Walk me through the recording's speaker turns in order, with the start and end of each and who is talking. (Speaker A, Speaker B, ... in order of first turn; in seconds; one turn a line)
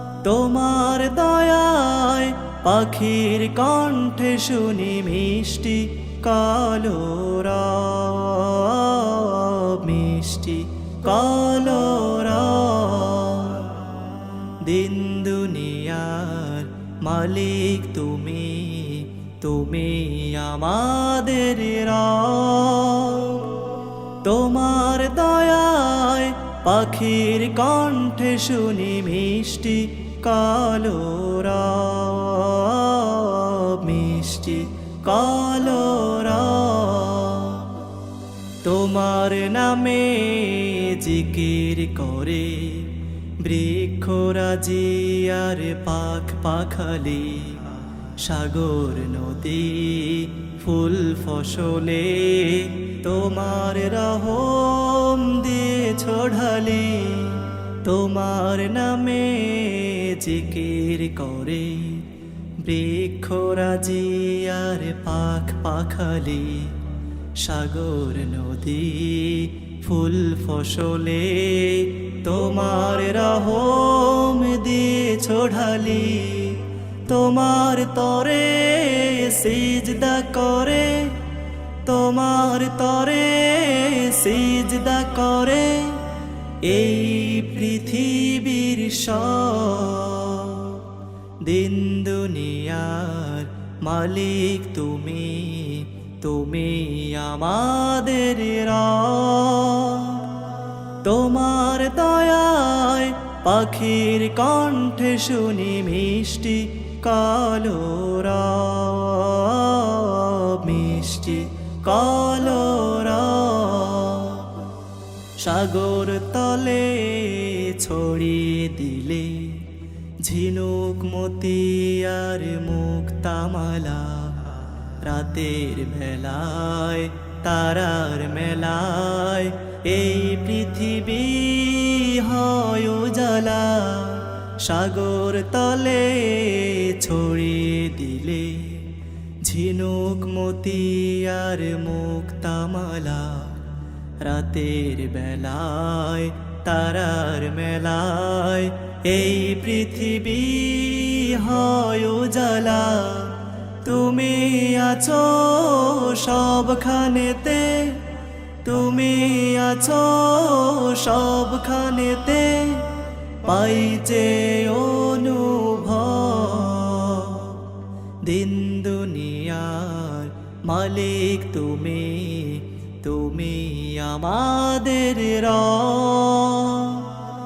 Speaker A: 0.2-13.8
Speaker A: 14.6-23.5
Speaker A: 24.2-37.7
Speaker A: 38.6-62.1
Speaker A: 62.6-66.8
Speaker A: 67.4-81.2
Speaker A: 81.8-86.0
Speaker A: 86.6-90.8
Speaker A: 91.4-100.4
Speaker A: 101.0-114.5
Speaker A: 115.4-119.7
Speaker A: 120.2-143.7
Speaker A: 144.2-158.1
Speaker A: 158.6-167.7
Speaker A: 168.2-177.2